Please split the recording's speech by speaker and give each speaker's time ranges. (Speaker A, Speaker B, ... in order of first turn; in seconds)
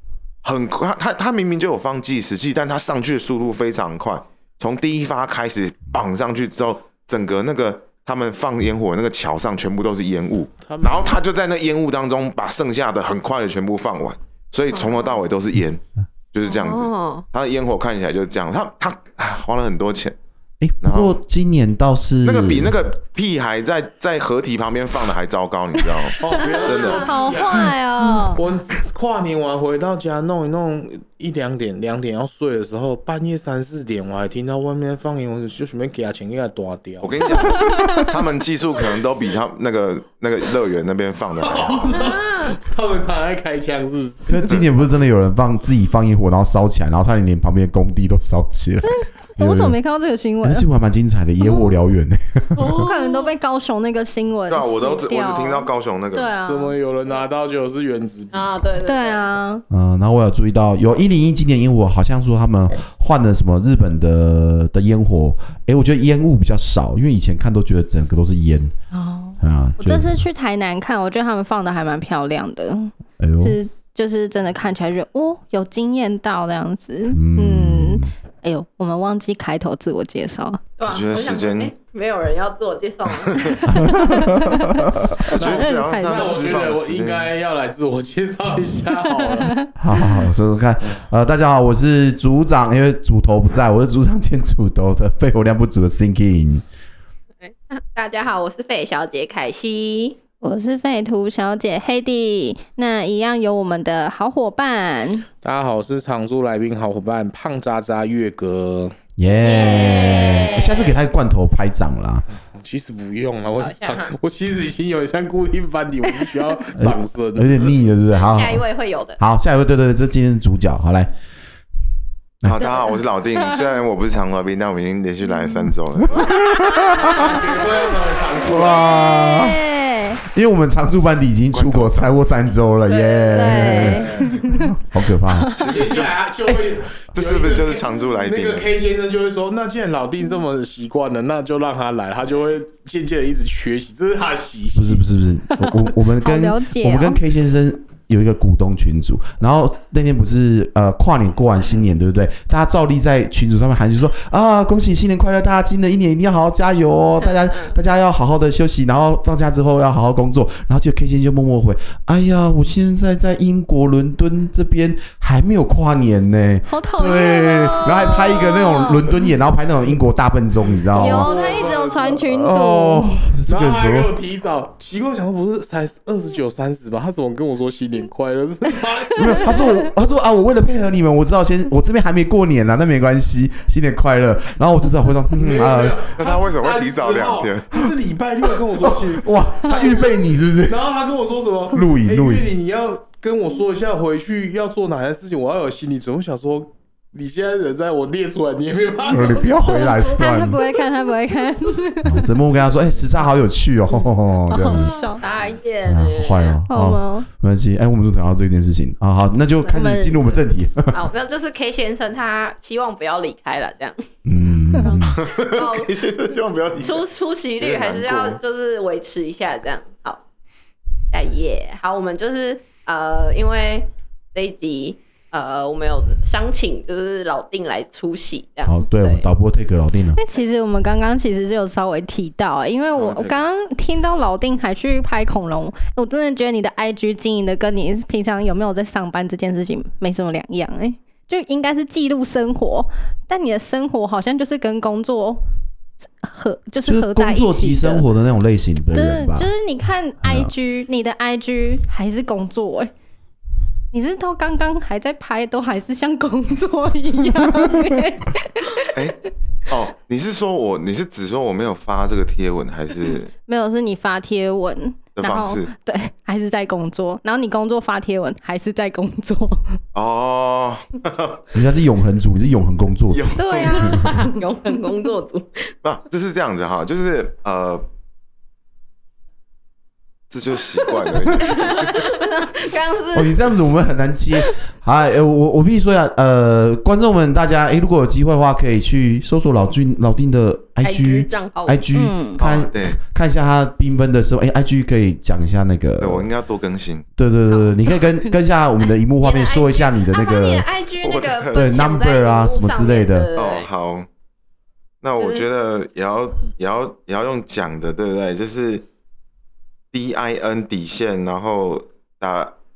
Speaker A: 0.4-20.1, 20.8-21.2, 22.2-27.2, 37.0-42.0, 54.5-56.3, 80.9-81.7, 83.2-83.7, 85.2-87.3, 122.4-126.4, 131.5-132.2, 135.7-136.2, 137.1-138.7, 186.2-187.7, 215.1-217.1, 217.6-218.4, 232.9-233.4, 258.9-263.3, 265.1-265.7, 269.9-271.5, 273.1-274.0, 275.8-277.8, 280.3-282.1, 292.4-293.0, 296.0-297.1, 301.0-301.9, 303.3-304.1, 305.0-308.9, 309.9-312.5
Speaker B: 10.6-11.2, 26.2-37.7, 41.4-44.5, 56.4-58.6, 85.4-89.6, 105.4-108.9, 112.5-117.6, 126.8-129.0, 133.8-134.4, 135.6-145.0, 170.8-172.2, 173.5-179.8, 185.3-200.0
Speaker C: 14.7-15.1, 16.4-17.2, 26.5-26.9, 41.9-42.5, 52.5-53.3, 58.3-59.3, 80.8-83.8, 97.4-100.2, 109.3-111.0, 113.6-114.1, 118.1-119.2, 132.8-133.8, 157.2-157.7, 204.6-206.6, 210.9-214.0, 214.8-215.9, 216.8-220.2, 221.1-229.2, 273.7-275.7, 280.7-283.6, 290.8-291.8, 297.5-298.1, 299.2-303.7, 305.2-305.4
Speaker D: 20.6-22.8, 44.3-49.8, 50.4-52.8, 59.7-68.7, 69.4-70.2, 73.2-73.6, 77.1-78.1, 83.7-85.2, 89.8-96.6, 109.2-112.2, 116.7-118.6, 119.2-121.1, 122.4-122.7, 126.0-127.2, 128.4-129.6, 130.2-136.6, 144.7-171.3, 172.2-174.1, 179.2-186.1, 188.8-190.8, 191.7-192.5, 199.1-200.6, 202.0-204.9, 205.8-211.0, 214.2-215.2, 228.7-230.2, 246.8-249.5, 250.2-250.5, 271.5-274.2, 283.1-296.3, 297.2-300.7, 301.5-303.3
Speaker E: 26.7-28.4, 48.8-50.6, 51.4-51.7, 52.7-56.8, 58.8-59.6, 68.9-80.6, 83.8-86.6, 89.2-90.3, 100.4-105.3, 109.4-110.5, 128.4-130.2, 133.3-134.8, 145.5-147.2, 166.7-169.3, 170.9-173.2, 199.6-202.3, 204.5-205.2, 206.7-207.3, 209.6-210.4, 230.1-245.4, 246.2-248.1, 248.9-252.9, 253.9-258.9, 263.5-269.8, 273.3-274.4, 291.9-292.4